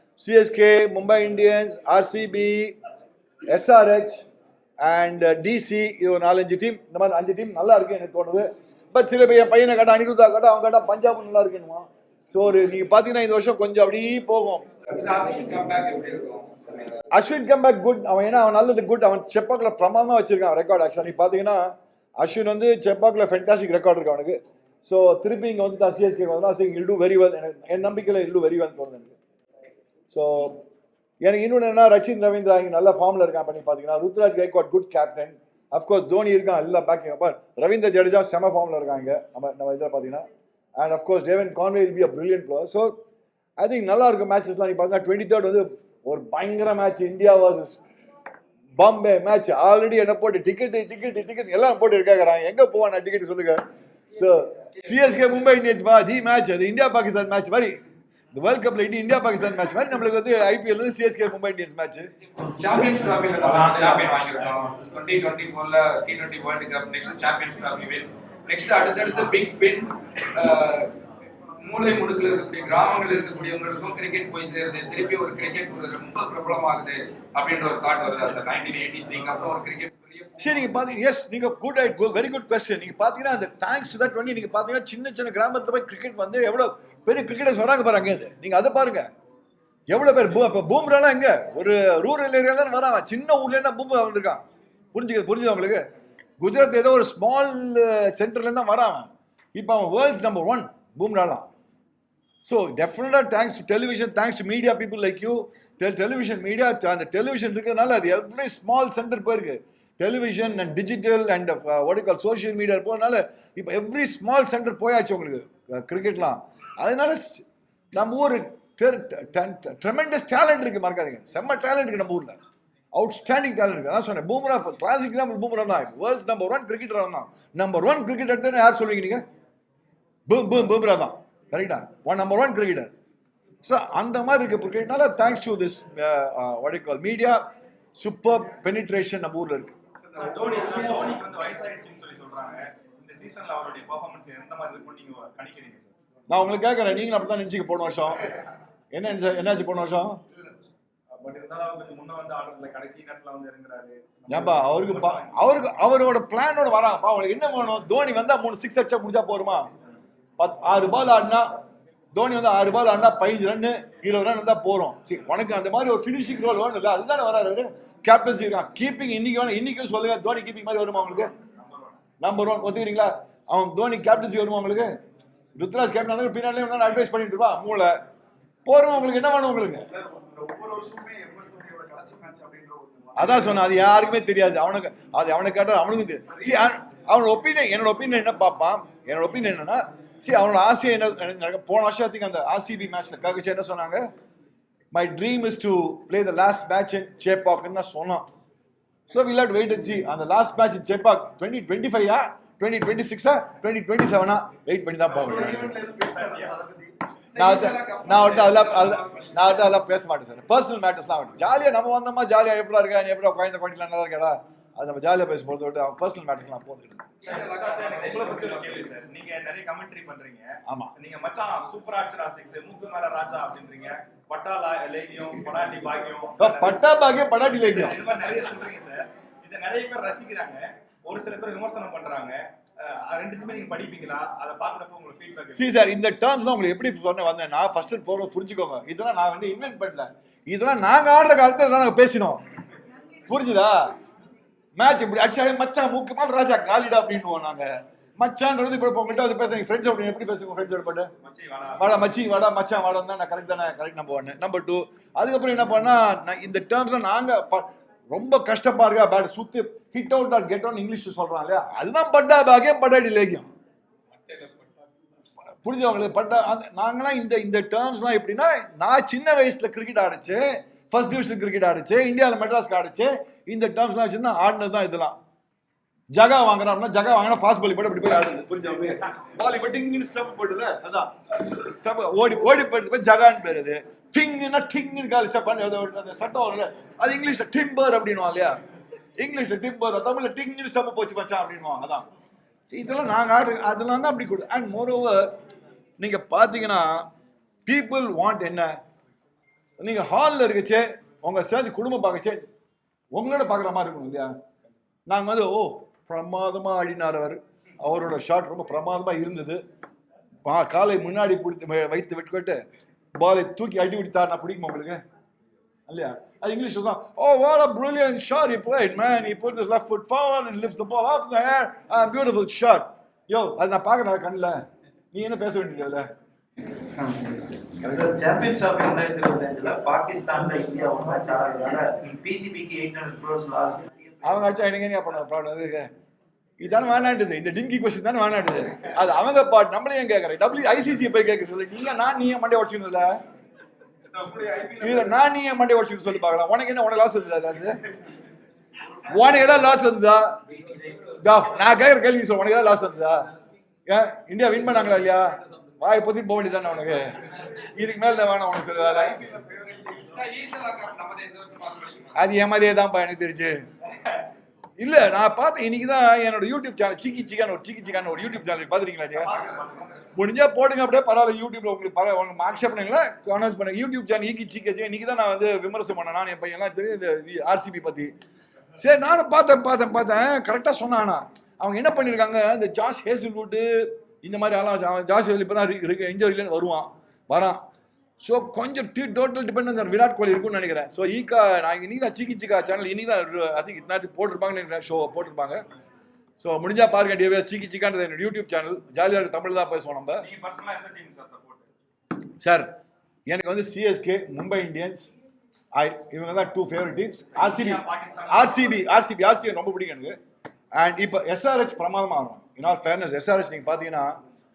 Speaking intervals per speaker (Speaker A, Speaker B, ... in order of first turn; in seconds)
Speaker A: 0.2-2.8, 3.5-4.2, 4.8-14.7, 17.1-29.2, 30.1-30.6, 31.2-40.2, 40.8-42.9, 43.6-47.8, 48.8-53.6, 54.1-57.8, 58.3-62.1, 80.4-89.0, 89.9-94.4, 94.9-95.8, 96.4-101.5, 102.4-122.3, 122.9-129.2, 130.3-132.9, 133.6-137.4, 138.0-139.8, 146.3-148.3, 148.9-150.2, 154.3-159.7, 160.4-161.5, 162.1-171.3, 172.2-174.9, 175.6-177.9, 178.7-179.8, 183.2-194.1, 194.9-198.2, 199.1-205.8, 207.3-217.1, 220.7-220.9, 226.4-228.0, 235.5-242.4, 243.3-243.9, 244.8-251.1, 251.8-263.5, 265.6-275.2, 276.1-288.6, 289.2-292.0, 292.7-295.3, 296.0-297.1, 297.6-298.7, 299.8-302.4, 303.1-304.3, 305.1-309.6, 310.4-312.6, 313.2-315.0, 315.9-324.6, 325.1-326.1, 334.2-335.9, 336.6-343.1, 344.7-347.8, 349.0-350.4, 351.1-353.2, 353.9-357.1, 357.7-359.3, 362.1-363.5, 364.8-369.3, 370.1-378.1, 378.8-387.6, 388.2-395.6, 396.4-400.2, 402.4-402.7, 403.3-405.1, 405.7-410.2, 410.7-414.2
Speaker B: 14.9-16.9, 62.5-70.9, 71.6-80.0, 207.3-209.5, 217.2-218.8, 360.1-362.1
Speaker C: 140.1-145.9, 151.1-155.3, 171.3-172.0, 217.2-226.8, 227.5-235.7, 251.2-252.0, 400.2-401.7, 407.4-408.9
Speaker D: 179.9-183.4, 205.1-206.9, 327.0-333.9, 344.1-344.9, 358.9-360.2, 369.4-369.8